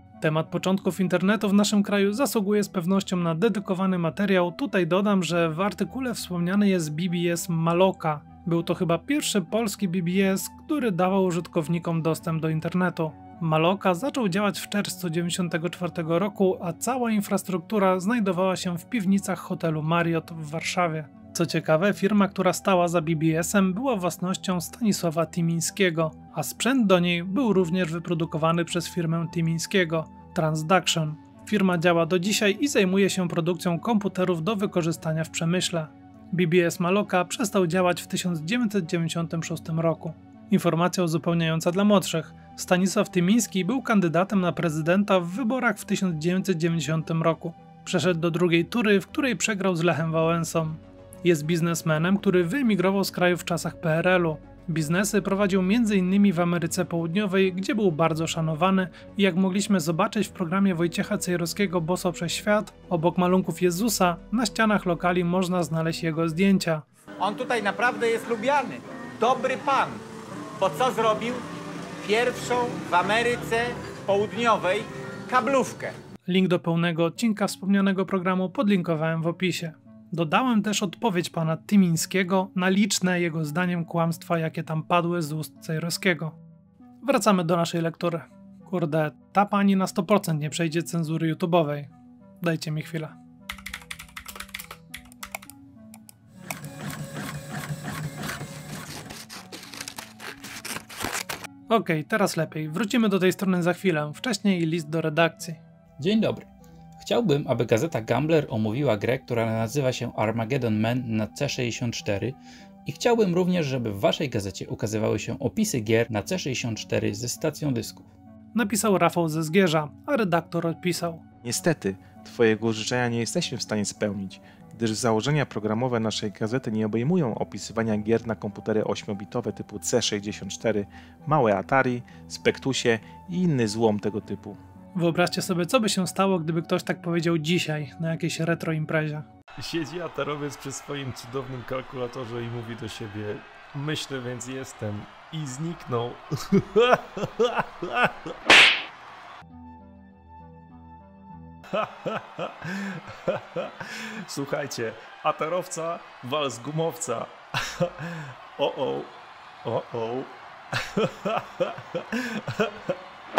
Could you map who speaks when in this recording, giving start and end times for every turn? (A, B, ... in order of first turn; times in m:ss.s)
0:00.2-1:06.8 A
1:07.2-1:10.0 B
1:10.6-1:11.4 B
1:12.0-1:16.0 B
1:16.3-1:26.4 A
1:27.0-1:31.9 A
1:32.4-1:33.2 A
1:41.7-1:45.6 A
1:46.0-1:46.5 C
1:47.0-1:58.1 C
1:58.5-2:01.2 A
2:01.4-2:14.6 D
2:14.9-2:19.2 A
2:19.6-2:28.1 E
2:31.7-2:39.1 E
2:39.6-2:42.9 E